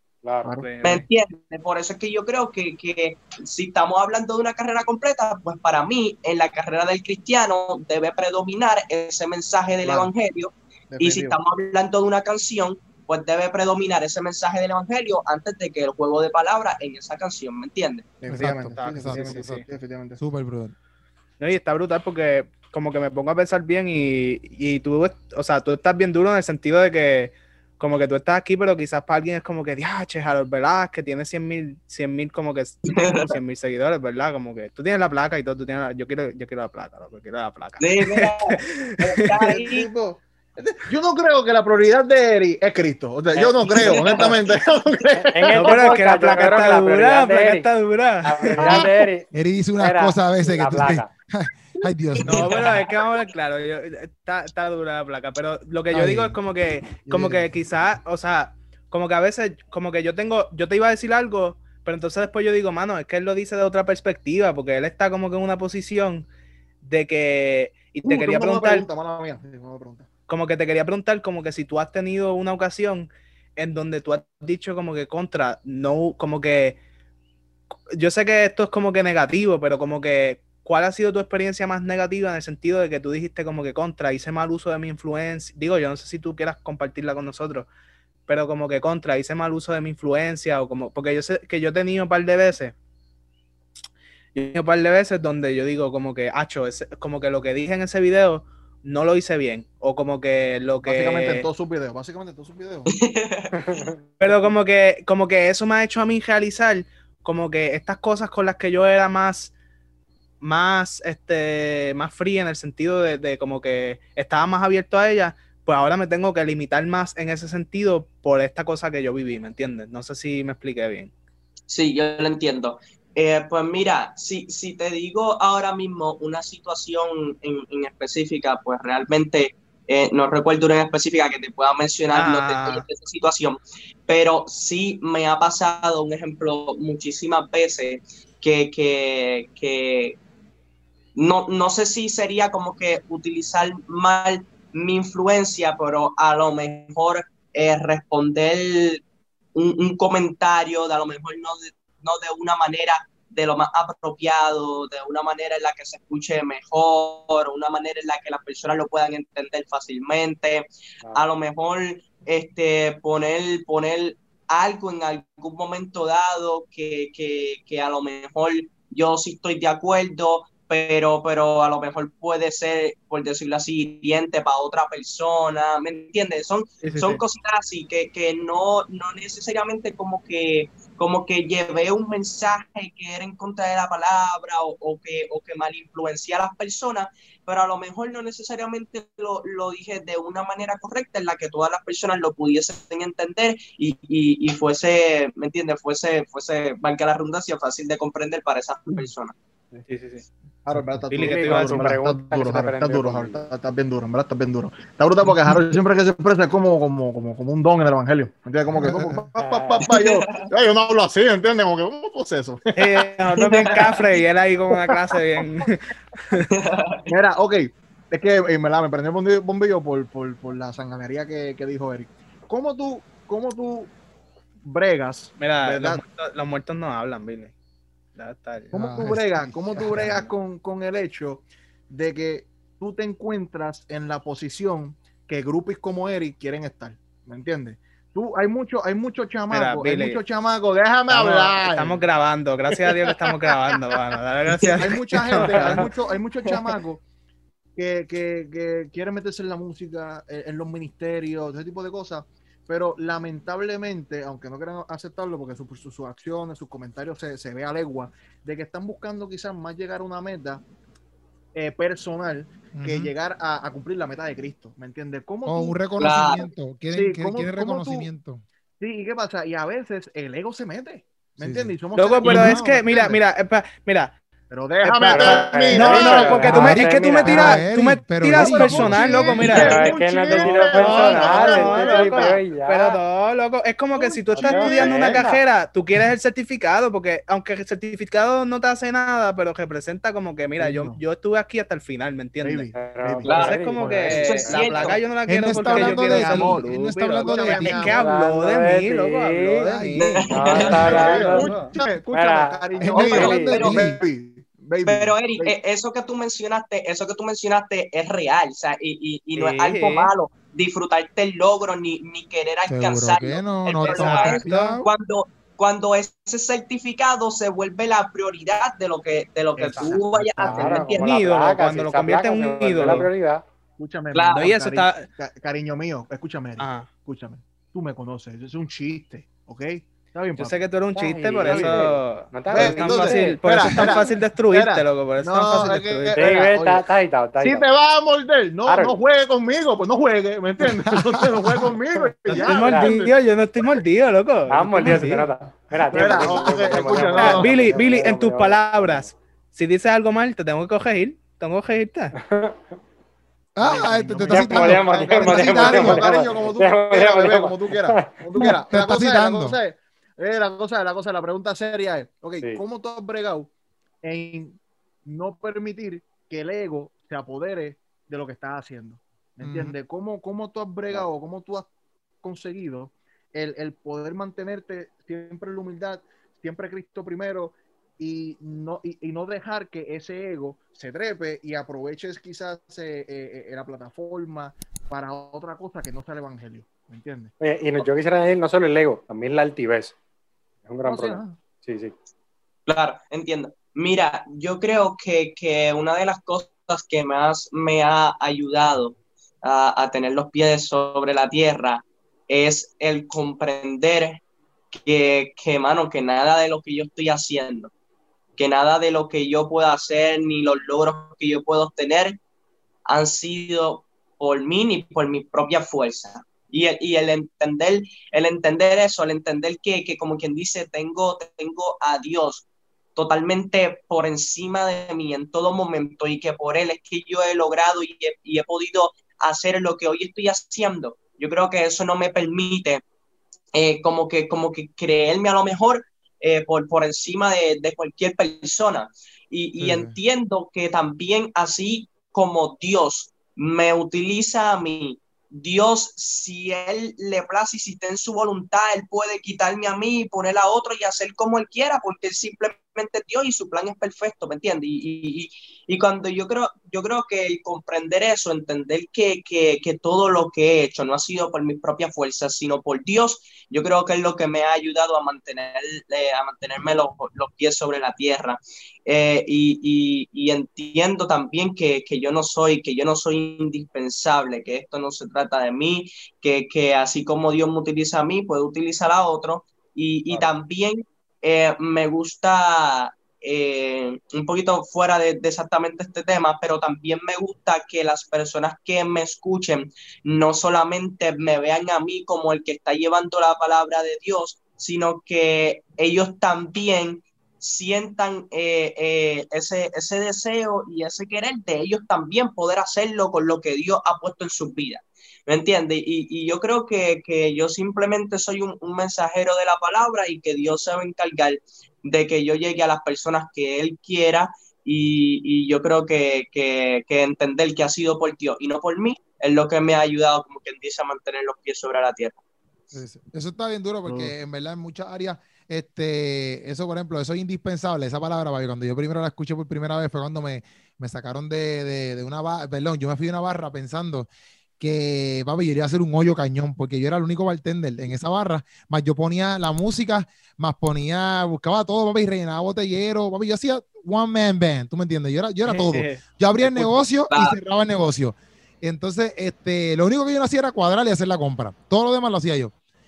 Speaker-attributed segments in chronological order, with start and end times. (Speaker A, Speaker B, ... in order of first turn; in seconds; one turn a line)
Speaker A: 0.2-0.6
Speaker B: 0.4-1.0
Speaker C: 0.6-1.0
Speaker D: 0.8-18.1
Speaker B: 9.8-10.1
Speaker B: 10.9-11.4
Speaker B: 18.2-20.2
Speaker E: 18.3-19.6
Speaker C: 18.7-19.6
Speaker E: 20.2-20.7
Speaker C: 21.4-39.2
Speaker D: 32.9-33.4
Speaker D: 37.8-39.9
Speaker B: 39.4-45.9
Speaker A: 43.4-44.4
Speaker D: 43.7-44.3
Speaker A: 45.1-47.7
Speaker C: 45.5-48.9
Speaker A: 48.2-49.3
Speaker B: 48.6-49.0
Speaker E: 49.3-52.4
Speaker A: 49.8-51.1
Speaker C: 52.2-66.3
Speaker D: 52.3-53.0
Speaker E: 55.9-56.4
Speaker B: 57.0-57.5
Speaker C: 66.8-68.9
Speaker B: 68.0-70.1
Speaker C: 70.3-76.8
Speaker C: 77.9-87.7
Speaker C: 88.3-92.7
Speaker C: 94.3-101.5
Speaker B: 100.8-102.9
Speaker D: 102.9-103.9
Speaker A: 103.6-104.0
Speaker C: 104.2-109.5
Speaker C: 110.4-121.1
Speaker D: 121.7-140.2
Speaker C: 132.1-132.8
Speaker D: 141.2-149.0
Speaker D: 149.6-199.4
Speaker C: 176.8-177.2
Speaker C: 199.9-200.2
Speaker B: 200.7-213.1
Speaker C: 201.1-201.9
Speaker A: 201.2-203.4
Speaker E: 208.7-209.3
Speaker A: 209.4-209.9
Speaker D: 209.9-210.2
Speaker C: 212.8-216.5
Speaker D: 213.4-214.2
Speaker B: 213.6-213.8
Speaker D: 216.4-217.1
Speaker B: 217.1-223.9
Speaker B: 224.6-226.0
Speaker C: 225.4-227.5
Speaker C: 228.2-228.7
Speaker B: 228.7-242.0
Speaker E: 228.7-230.3
Speaker C: 239.5-240.2
Speaker C: 241.1-245.9
Speaker B: 243.2-243.5
Speaker D: 244.5-244.9
Speaker B: 244.8-247.0
Speaker A: 245.4-245.9
Speaker D: 246.5-246.8
Speaker B: 247.8-260.6
Speaker B: 261.6-266.1
Speaker E: 262.7-263.1
Speaker E: 265.5-268.4
Speaker D: 266.0-266.5
Speaker B: 266.9-268.1
Speaker B: 268.8-273.2
Speaker E: 271.4-271.8
Speaker C: 271.9-274.2
Speaker B: 274.5-277.6
Speaker C: 275.0-292.7
Speaker A: 275.0-277.6
Speaker E: 275.9-279.4
Speaker B: 278.3-282.4
Speaker A: 279.3-283.0
Speaker D: 279.4-280.0
Speaker B: 283.9-285.2
Speaker A: 284.3-285.4
Speaker B: 290.6-291.0
Speaker B: 292.4-296.6
Speaker A: 292.7-294.7
Speaker D: 293.2-293.6
Speaker C: 293.3-301.7
Speaker D: 294.1-295.0
Speaker E: 295.3-297.9
Speaker B: 297.2-298.0
Speaker A: 297.8-299.7
Speaker E: 299.6-300.1
Speaker D: 300.1-301.1
Speaker A: 300.3-303.8
Speaker B: 300.5-305.5
Speaker E: 302.8-304.0
Speaker D: 303.1-303.8
Speaker D: 304.8-321.2
Speaker C: 309.4-310.1
Speaker E: 312.7-314.9
Speaker C: 313.8-314.7
Speaker B: 319.6-320.9
Speaker A: 320.4-323.4
Speaker C: 320.9-323.1
Speaker B: 323.8-330.6
Speaker D: 324.1-324.5
Speaker C: 324.3-325.1
Speaker C: 326.6-326.9
Speaker C: 330.4-336.4
Speaker A: 330.9-334.1
Speaker B: 331.4-331.9
Speaker B: 332.5-343.1
Speaker A: 336.1-337.7
Speaker A: 338.6-339.0
Speaker E: 340.6-341.8
Speaker A: 342.3-343.0
Speaker C: 342.3-345.3
Speaker A: 344.5-349.1
Speaker E: 345.8-347.2
Speaker B: 345.9-347.6
Speaker C: 347.1-352.1
Speaker A: 352.1-352.7
Speaker E: 353.6-356.1
Speaker B: 353.6-363.5
Speaker A: 354.3-358.5
Speaker E: 358.4-359.6
Speaker B: 364.0-371.7
Speaker E: 369.4-369.8
Speaker B: 372.2-387.3
Speaker A: 387.4-390.0
Speaker A: 390.7-391.9
Speaker B: 390.9-391.4
Speaker D: 392.7-407.7
Speaker D: 408.4-412.2
Speaker D: 412.9-432.8
Speaker D: 433.5-522.2
Speaker E: 439.6-439.9
Speaker E: 522.7-534.1
Speaker B: 523.9-524.1
Speaker E: 534.6-552.5
Speaker C: 545.5-546.7
Speaker D: 547.1-547.4